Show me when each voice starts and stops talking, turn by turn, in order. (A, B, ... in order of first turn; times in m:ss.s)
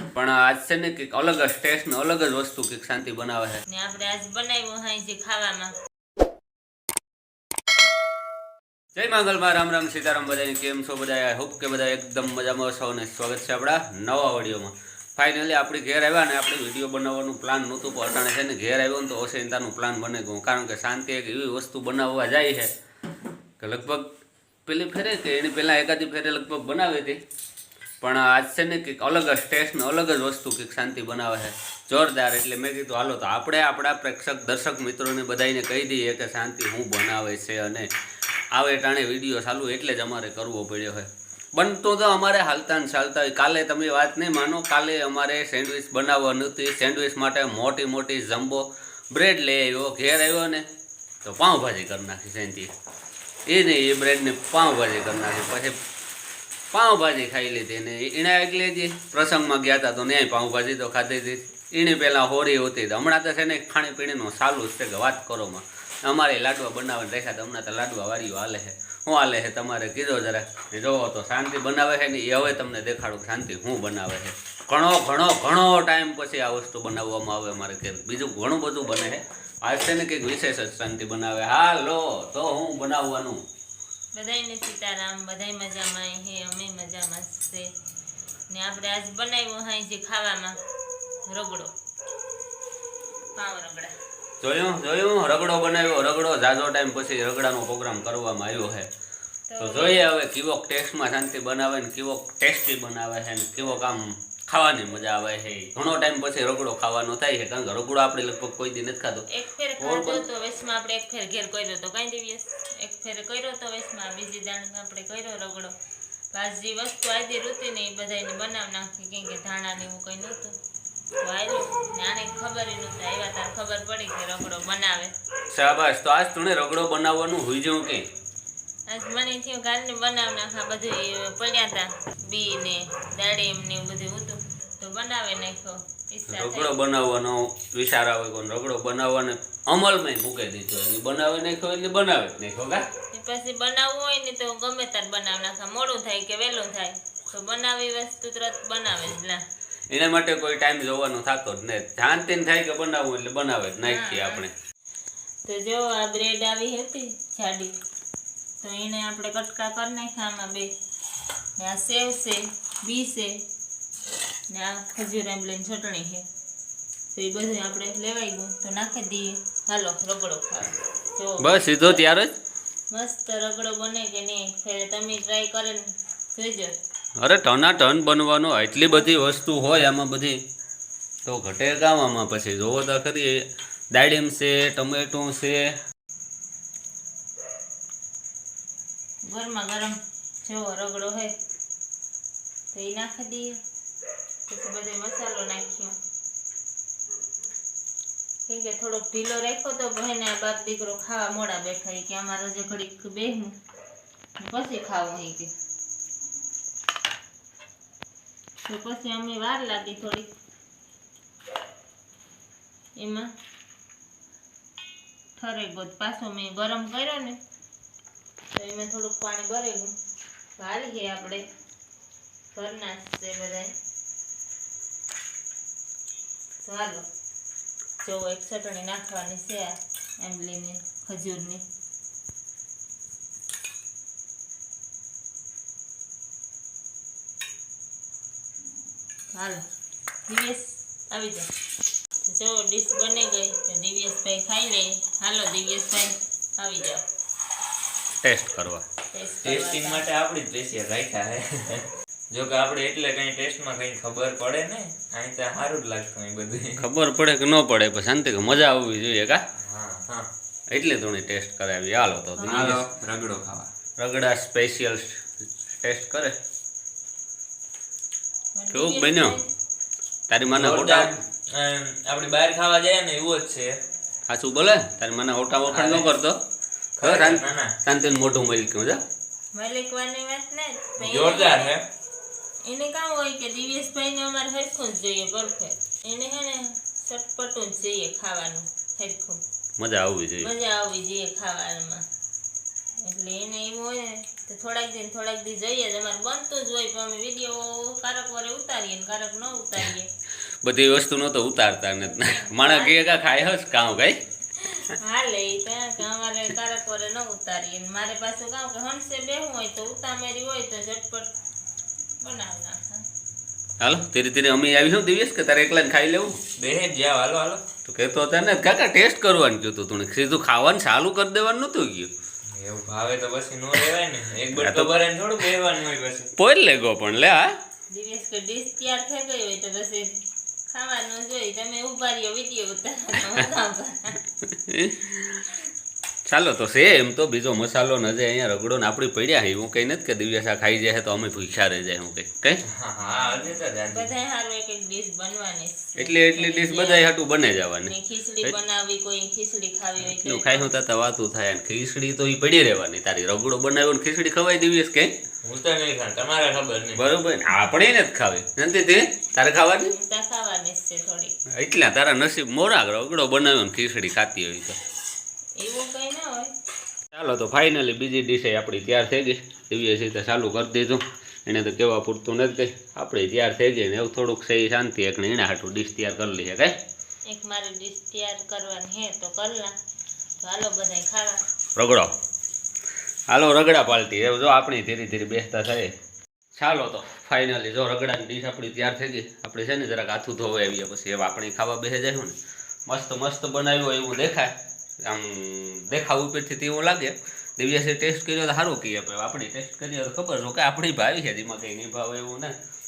0:00.1-0:03.6 A
0:03.7-0:05.7 B
0:08.9-0:22.7 A
0:23.6-0:24.1 A
0:24.6-0:27.2 A
0:28.0-0:37.9 A
0:38.5-0:50.6 A
0:51.2-0:52.7 A
0:53.5-0:55.8 A
0:56.7-1:23.4 A
1:24.1-1:27.7 B
1:28.5-1:30.6 B
1:31.3-1:31.7 B
1:33.4-1:33.9 B
1:34.4-1:38.9 A
1:39.5-1:40.1 B
1:39.6-1:49.2 A
1:49.3-1:55.7 B
1:49.8-1:50.2 A
1:56.3-2:00.6 B
2:01.2-2:05.1 B
2:05.5-2:08.0 A
2:08.9-2:16.8 B
2:16.3-2:22.8 A
2:23.1-2:29.4 B
2:29.9-2:34.5 A
2:33.8-2:34.4 B
2:35.4-2:37.7 B
2:38.6-2:40.7 B
2:41.6-2:43.4 B
2:44.5-2:46.3 B
2:47.1-2:52.0 B
2:51.4-2:52.3 A
2:52.9-2:56.7 B
2:57.2-3:00.4 A
3:01.2-3:05.8 A
3:09.3-3:11.3 B
3:12.7-3:13.6 B
3:14.5-3:16.0 B
3:18.5-3:23.6 B
3:24.4-3:25.5 B
3:28.6-3:30.3 B
3:33.0-3:33.3 B
3:35.4-3:37.4 B
3:38.5-3:39.9 B
3:40.6-3:41.5 B
3:42.5-3:43.7 B
3:46.6-3:47.0 B
3:48.0-3:51.6 B
3:59.3-3:59.6 B
4:00.3-4:01.5 B
4:02.2-4:07.0 B
4:08.2-4:08.8 A
4:09.1-4:10.0 B
4:09.4-4:16.8 C
4:16.8-4:19.4 A
4:19.6-4:20.3 C
4:20.7-4:22.8 A
4:22.4-4:22.8 B
4:22.5-4:23.7 C
4:24.0-4:26.3 A
4:28.6-4:29.4 B
4:28.7-4:29.4 A
4:30.3-4:31.1 A
4:30.5-4:33.8 C
4:34.3-4:36.4 A
4:35.7-4:36.1 C
4:37.0-4:37.7 C
4:37.0-4:39.0 A
4:39.5-4:41.7 B
4:41.0-4:41.8 C
4:42.6-4:49.4 B
4:49.8-4:50.5 A
4:50.4-4:52.0 B
4:53.0-5:00.1 B
5:00.6-5:04.2 A
5:02.0-5:03.1 B
5:04.6-5:11.3 B
5:12.2-5:13.0 B
5:13.8-5:16.4 A
5:16.6-5:17.6 C
5:17.8-5:22.1 A
5:22.5-5:26.3 C
5:24.6-5:25.0 A
5:26.4-5:27.6 A
5:27.9-5:30.1 B
5:30.7-5:34.2 B
5:34.5-5:35.4 A
5:36.3-5:42.6 A
5:42.7-5:44.1 C
5:43.1-5:47.1 B
5:46.0-5:48.5 A
5:47.9-5:50.7 B
5:50.0-5:55.1 A
5:55.4-5:57.0 C
5:56.9-5:59.9 A
5:59.9-6:01.3 B
6:01.5-6:04.8 A
6:05.6-6:06.5 B
6:07.1-6:16.8 A
6:17.2-6:19.7 B
6:20.4-6:21.4 B
6:21.8-6:22.1 A
6:23.3-6:25.9 A
6:26.5-6:32.3 A
6:32.9-6:42.5 A